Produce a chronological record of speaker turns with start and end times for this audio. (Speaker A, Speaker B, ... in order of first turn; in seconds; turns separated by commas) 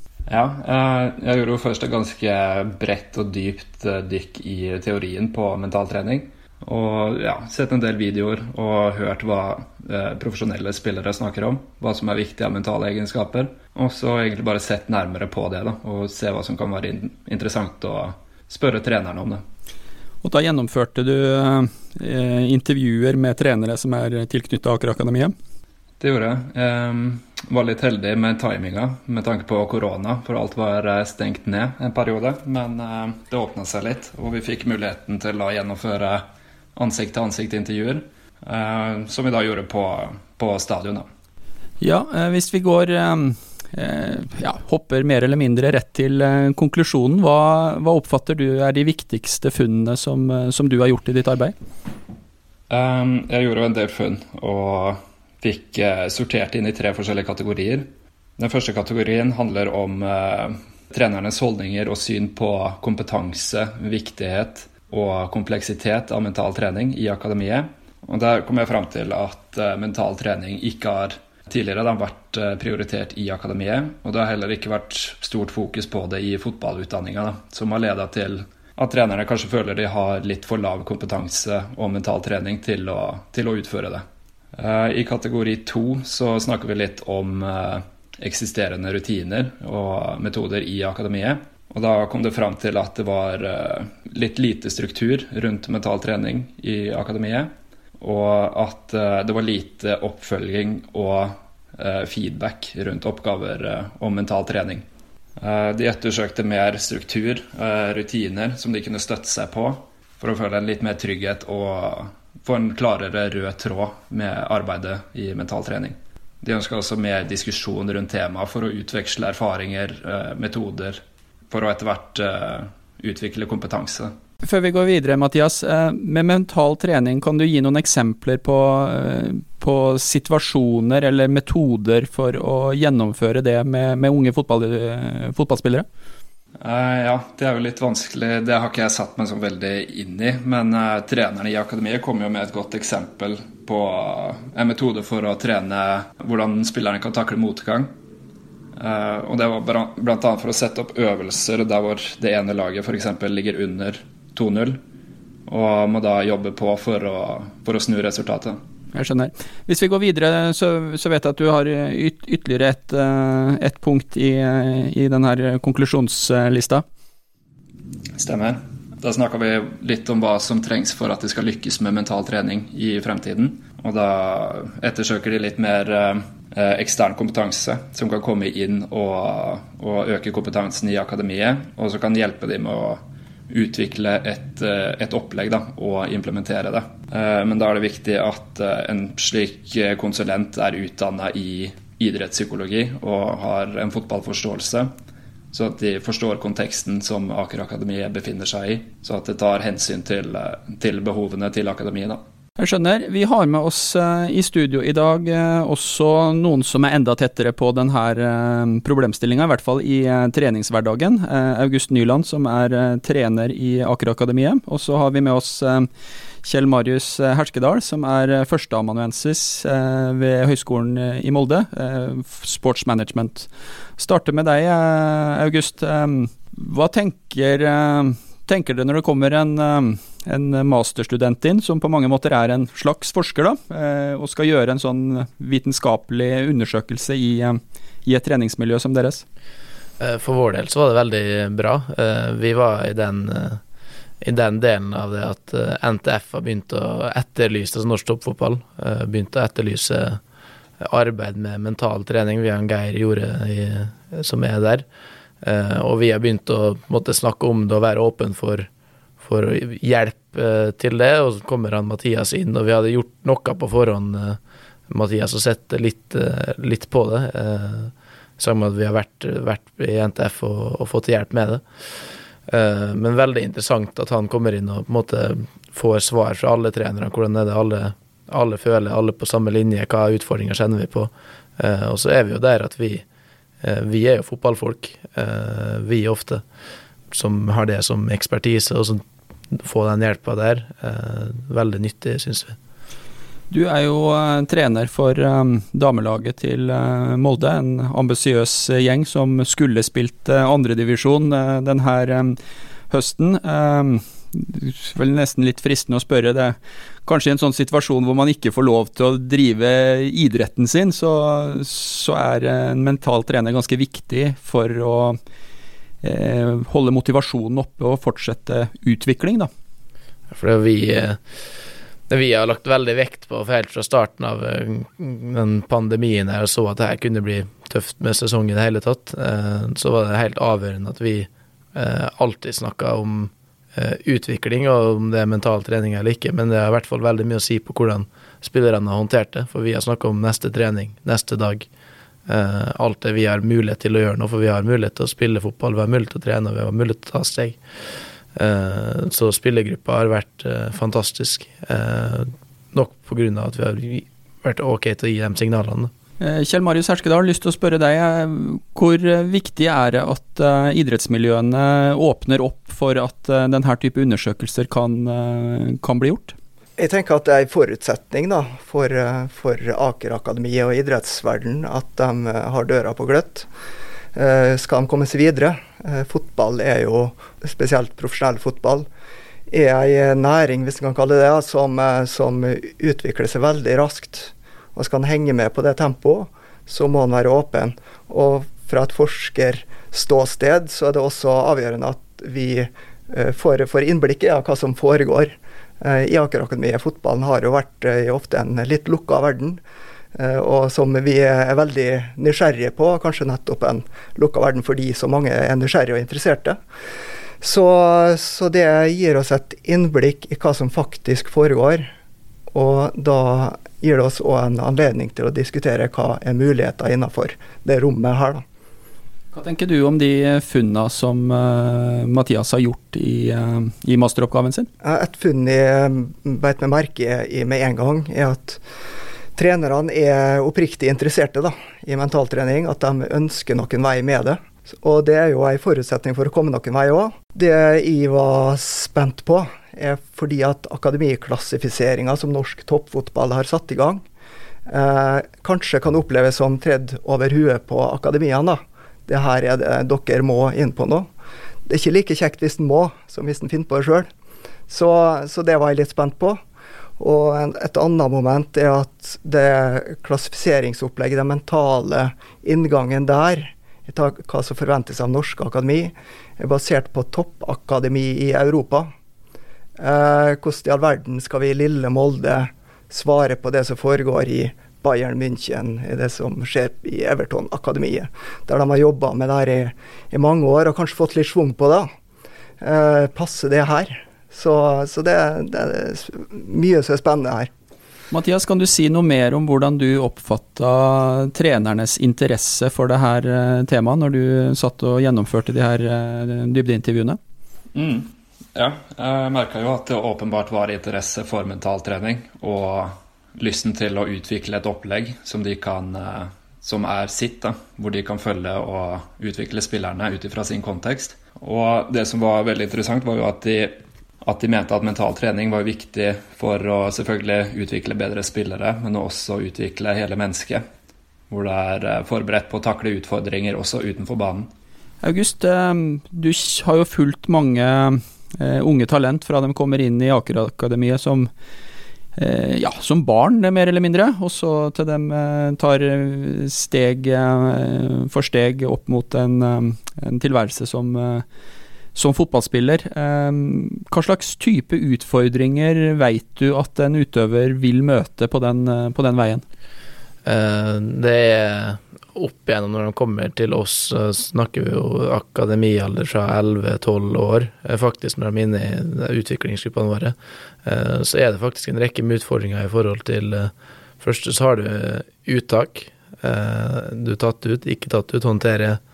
Speaker A: 0.3-19.4, Speaker B: 20.2-25.3, Speaker A: 26.0-36.2, Speaker A: 36.8-41.1, Speaker B: 41.8-51.5, Speaker A: 52.7-84.0, Speaker A: 84.5-104.8, Speaker A: 105.4-124.1, Speaker B: 124.4-135.9, Speaker A: 136.6-147.9, Speaker A: 148.8-154.8, Speaker A: 155.5-158.6, Speaker B: 158.9-166.8, Speaker A: 168.2-194.9, Speaker A: 195.5-202.2, Speaker B: 202.6-215.9, Speaker B: 216.4-239.2, Speaker C: 240.0-243.6, Speaker C: 244.2-250.2, Speaker C: 250.8-254.9, Speaker C: 255.4-258.7, Speaker C: 259.2-271.6, Speaker C: 272.5-283.0, Speaker C: 283.6-286.4, Speaker C: 287.1-292.6, Speaker B: 293.5-302.4, Speaker B: 302.9-315.2, Speaker B: 316.0-319.5, Speaker C: 320.3-321.2, Speaker C: 322.1-341.7, Speaker C: 342.3-347.6, Speaker C: 348.4-355.9, Speaker B: 356.2-366.4, Speaker D: 366.8-373.5, Speaker D: 374.1-378.9, Speaker D: 379.5-399.6, Speaker D: 400.1-406.6, Speaker D: 407.4-411.9, Speaker D: 412.5-418.4, Speaker B: 419.3-424.7, Speaker D: 424.8-428.6, Speaker D: 429.4-444.0, Speaker D: 444.7-451.1, Speaker D: 451.7-454.1, Speaker D: 454.7-456.4, Speaker D: 457.0-468.9, Speaker D: 469.8-481.9, Speaker D: 482.6-487.5, Speaker B: 488.1-497.2, Speaker A: 497.8-520.6, Speaker A: 521.3-524.5, Speaker B: 525.0-531.3, Speaker B: 532.2-541.2, Speaker B: 542.0-549.4, Speaker C: 550.3-568.8